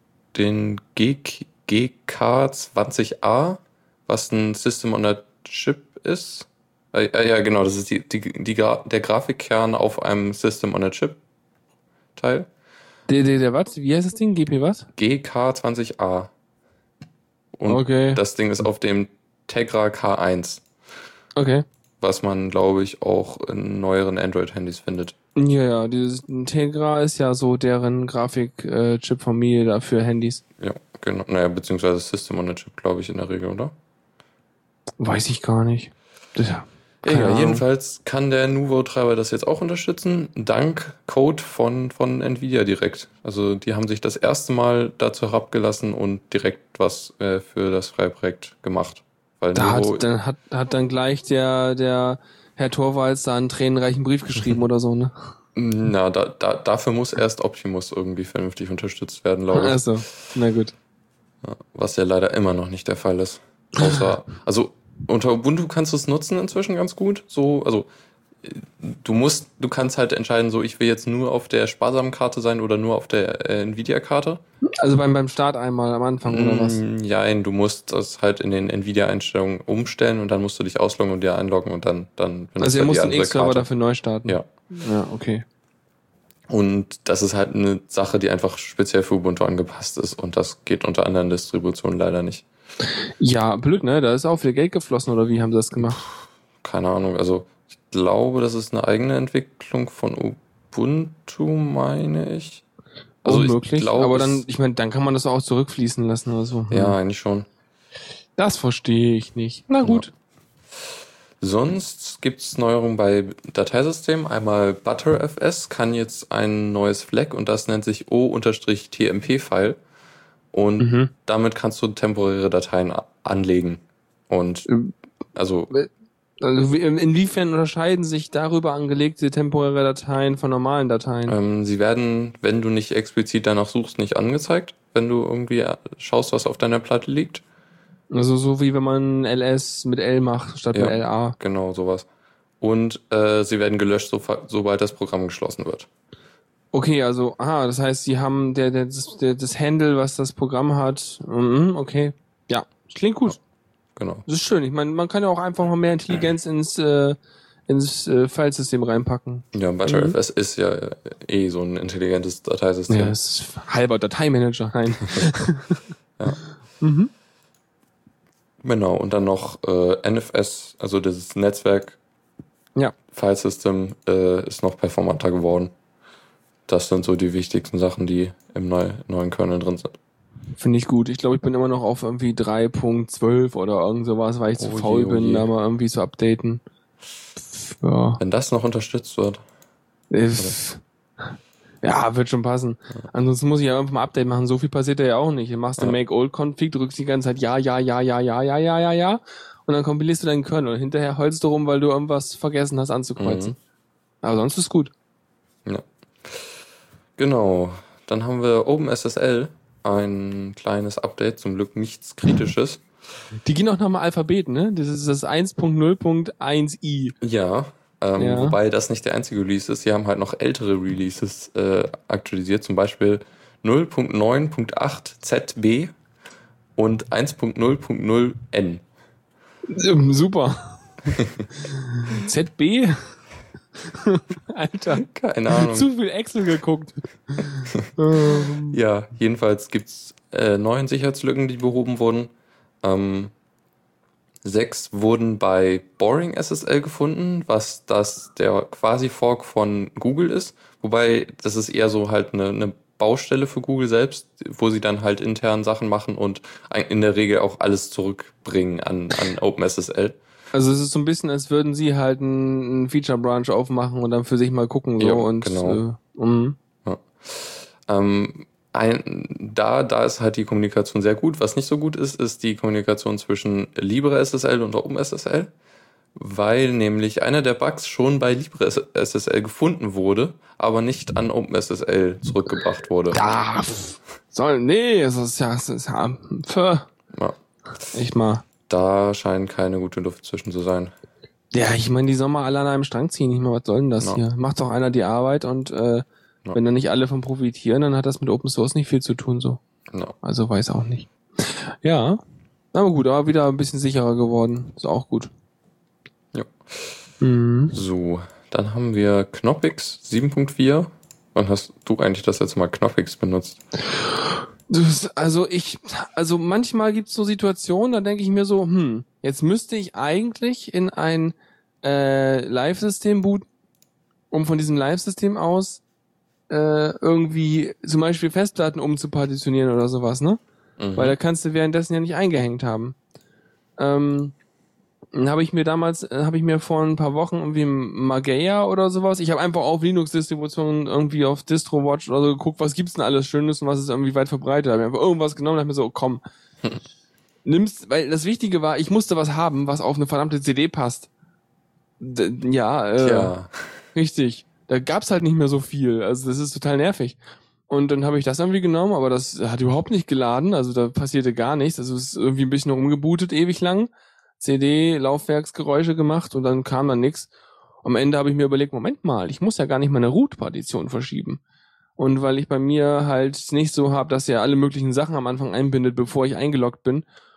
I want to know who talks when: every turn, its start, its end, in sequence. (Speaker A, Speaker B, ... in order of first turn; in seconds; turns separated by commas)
Speaker A: 0.3-11.2, Speaker A: 12.2-12.5, Speaker B: 13.1-14.9, Speaker A: 14.9-16.3, Speaker A: 17.6-20.6, Speaker B: 17.7-18.2, Speaker B: 21.4-21.6, Speaker A: 22.0-25.1, Speaker B: 25.4-30.4, Speaker A: 30.6-33.7, Speaker B: 35.0-37.6, Speaker A: 37.0-50.0, Speaker B: 49.5-55.3, Speaker A: 55.5-59.9, Speaker B: 59.5-60.7, Speaker A: 61.4-67.9, Speaker A: 68.4-74.4, Speaker B: 74.8-76.8, Speaker A: 76.2-83.7, Speaker B: 82.6-85.4, Speaker A: 86.5-92.4, Speaker B: 93.2-96.0, Speaker A: 96.6-102.6, Speaker A: 103.2-104.4, Speaker B: 103.2-107.0, Speaker A: 106.7-107.5, Speaker B: 108.4-110.1, Speaker A: 111.4-119.8, Speaker A: 120.5-124.7, Speaker B: 120.8-121.1, Speaker B: 124.7-124.9, Speaker A: 125.3-125.7, Speaker B: 126.4-131.3, Speaker A: 131.3-137.4, Speaker B: 138.1-141.3, Speaker A: 140.7-142.1, Speaker A: 142.6-145.9, Speaker B: 146.7-153.4, Speaker A: 153.9-154.2, Speaker B: 154.2-160.2, Speaker A: 159.5-163.1, Speaker B: 162.9-165.8, Speaker B: 166.8-167.1, Speaker A: 168.6-172.0, Speaker A: 173.1-175.7, Speaker A: 176.7-179.9, Speaker B: 180.6-186.6, Speaker A: 184.6-185.5, Speaker B: 187.7-188.2, Speaker A: 188.2-189.4, Speaker B: 190.1-191.3, Speaker B: 191.8-203.6, Speaker A: 203.2-203.5, Speaker B: 204.2-204.9, Speaker A: 205.6-206.6, Speaker A: 207.2-212.8, Speaker B: 213.4-217.1, Speaker A: 217.2-225.9, Speaker B: 218.2-218.6, Speaker A: 226.8-228.8, Speaker B: 229.7-230.9, Speaker A: 231.1-231.5, Speaker B: 231.6-233.2, Speaker B: 233.8-238.8, Speaker A: 235.0-235.9, Speaker A: 237.7-242.3, Speaker A: 242.8-243.3, Speaker A: 244.4-260.2, Speaker B: 260.5-266.6, Speaker A: 265.0-265.8, Speaker A: 266.8-275.5, Speaker A: 276.1-283.2, Speaker B: 283.1-286.9, Speaker B: 287.9-288.4, Speaker A: 288.7-290.9, Speaker B: 291.5-299.6, Speaker B: 300.2-302.2, Speaker B: 302.7-305.3, Speaker A: 306.3-307.0, Speaker B: 307.2-307.7, Speaker A: 307.7-313.6, Speaker B: 313.9-323.5, Speaker B: 324.3-325.8, Speaker B: 326.5-330.4, Speaker A: 330.8-331.1, Speaker B: 330.9-332.9, Speaker B: 333.8-334.3, Speaker B: 335.1-346.2, Speaker B: 347.4-351.1, Speaker B: 352.0-353.3, Speaker A: 353.0-353.8, Speaker B: 353.9-357.2, Speaker B: 357.7-367.3, Speaker B: 367.8-371.4, Speaker B: 372.0-377.0